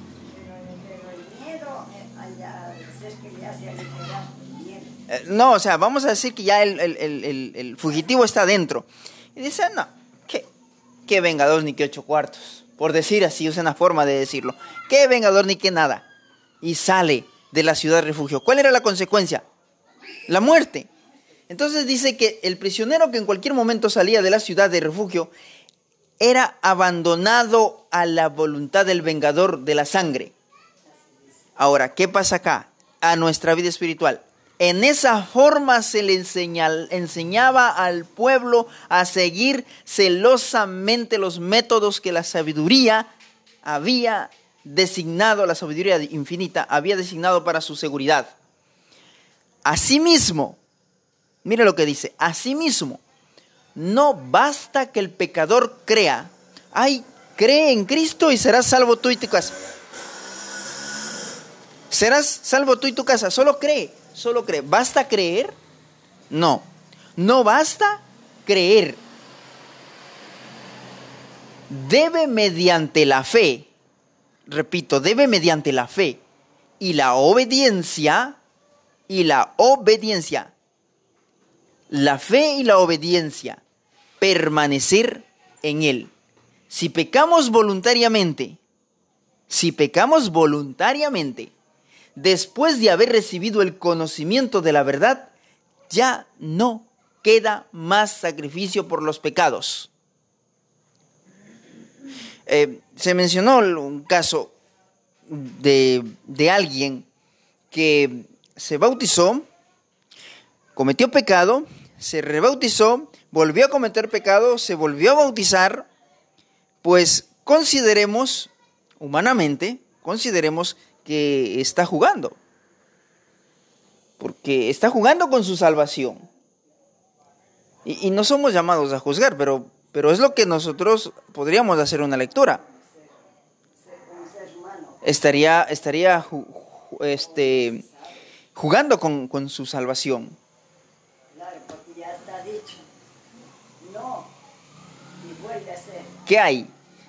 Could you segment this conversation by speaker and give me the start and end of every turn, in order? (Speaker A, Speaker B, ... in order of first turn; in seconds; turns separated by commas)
Speaker A: 0.3-5.0, Speaker B: 5.1-10.5, Speaker B: 11.1-16.1, Speaker B: 16.6-19.4, Speaker B: 20.3-20.9, Speaker B: 21.5-25.3, Speaker B: 26.2-30.3, Speaker A: 30.8-31.5, Speaker B: 31.6-43.1, Speaker B: 43.6-48.3, Speaker B: 49.6-50.6, Speaker B: 51.4-53.0, Speaker B: 53.7-59.5, Speaker B: 61.9-65.5, Speaker B: 66.3-69.0, Speaker B: 71.7-73.7, Speaker B: 74.5-76.2, Speaker B: 76.8-78.4, Speaker B: 79.1-80.5, Speaker B: 81.9-83.6, Speaker B: 84.2-86.1, Speaker B: 86.7-88.6, Speaker B: 89.5-91.5, Speaker B: 92.2-95.3, Speaker B: 95.9-99.9, Speaker B: 102.5-104.5, Speaker B: 105.3-107.0, Speaker B: 107.7-109.5, Speaker B: 110.7-115.9, Speaker B: 116.8-122.4, Speaker B: 124.2-126.2, Speaker B: 127.8-132.6, Speaker A: 132.6-133.1, Speaker A: 133.8-135.0, Speaker B: 135.0-137.8, Speaker A: 137.1-138.3, Speaker B: 138.5-140.4, Speaker A: 141.3-142.8, Speaker A: 143.8-144.3, Speaker A: 145.2-146.2, Speaker B: 146.2-146.7